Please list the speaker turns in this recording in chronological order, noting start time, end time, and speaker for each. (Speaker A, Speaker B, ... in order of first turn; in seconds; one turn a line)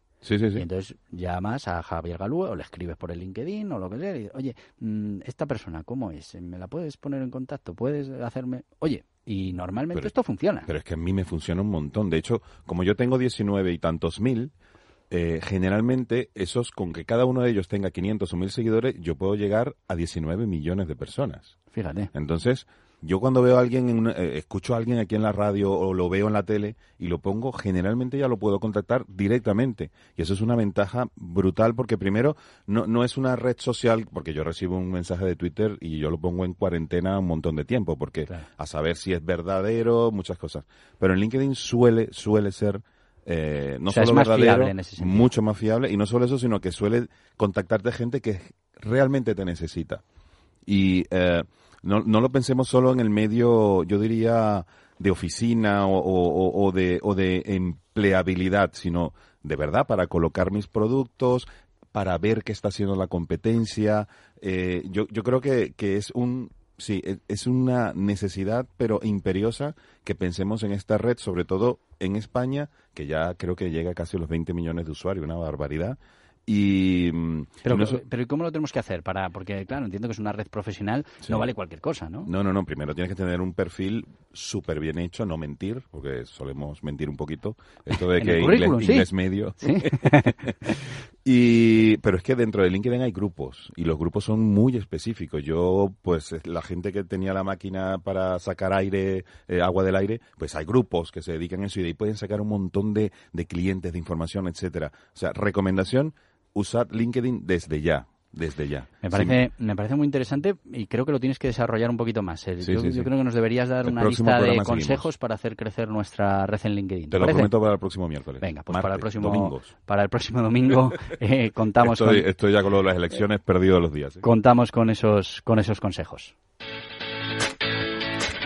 Speaker A: 0.2-0.7
Speaker B: 0.6-10.7
Speaker A: 10.7-14.5
Speaker A: 15.1-21.6
Speaker B: 21.7-22.1
Speaker A: 22.1-50.0
Speaker B: 43.9-45.3
Speaker A: 50.7-78.0
Speaker B: 77.7-82.3
Speaker A: 81.2-81.5
Speaker A: 82.2-109.4
Speaker B: 88.2-89.1
Speaker B: 89.6-90.4
Speaker B: 109.0-117.5
Speaker A: 112.6-113.1
Speaker A: 113.8-115.1
Speaker A: 117.1-119.7
Speaker B: 118.4-122.3
Speaker A: 121.8-124.2
Speaker B: 124.2-126.3